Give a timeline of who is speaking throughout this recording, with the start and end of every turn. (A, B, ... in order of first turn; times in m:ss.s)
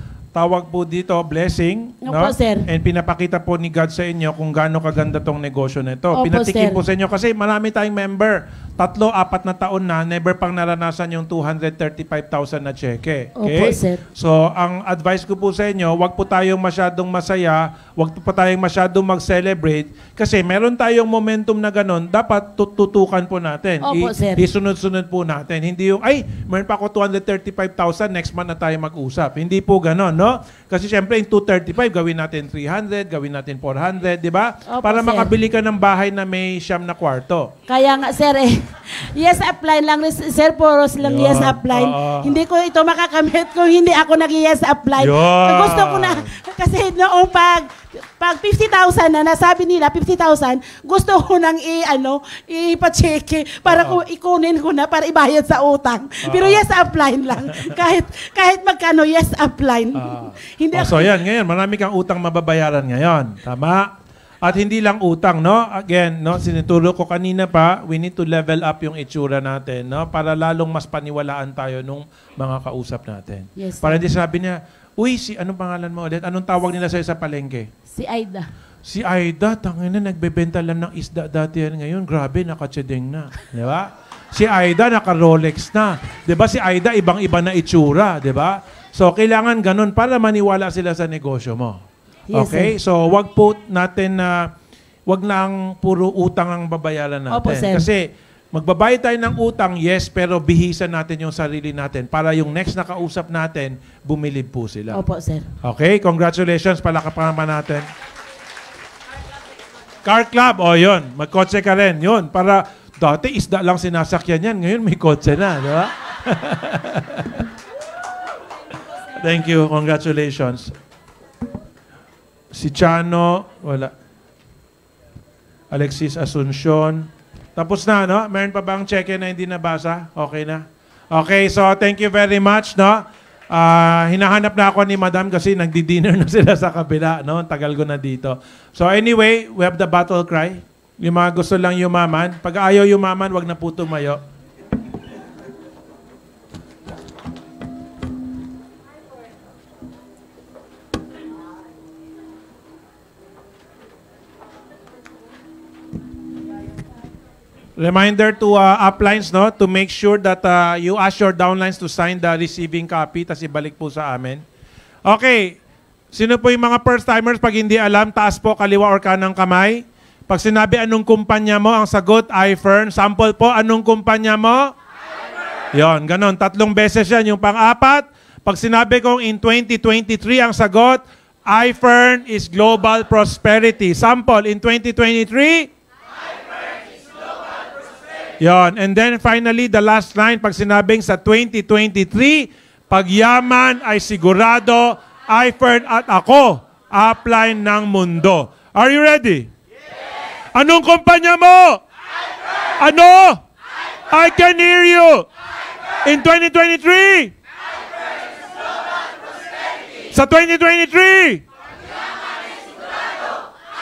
0:00.3-0:37.5 A
0:02.0-0:02.7 B
0:06.1-0:06.8 B
0:13.4-0:14.0 B
0:23.8-0:24.4 B
0:34.7-0:35.3 B
0:37.7-1:01.1 B
0:41.0-0:42.4 A
0:45.0-0:46.3 A
0:53.6-0:54.0 A
0:56.2-0:56.6 A
1:00.0-1:03.9 A
1:04.4-1:17.7 A
1:13.6-1:14.0 B
1:17.9-1:18.5 B
1:18.8-1:31.8 A
1:32.3-1:32.7 B
1:32.3-1:34.5 A
1:35.1-1:45.0 A
1:37.3-1:37.9 B
1:44.9-1:45.5 B
1:45.6-1:47.9 A
1:50.0-1:57.4 A
1:59.2-2:00.7 A
2:02.5-2:03.9 A
2:05.7-2:24.2 A
2:37.8-2:44.4 A
2:45.0-2:45.6 A
2:46.1-2:54.7 A
2:55.7-3:05.7 A
3:08.4-3:19.5 A
3:20.5-3:21.8 A
3:22.8-3:23.4 A
3:24.1-3:25.3 A
3:26.0-3:27.3 A
3:30.1-3:31.4 A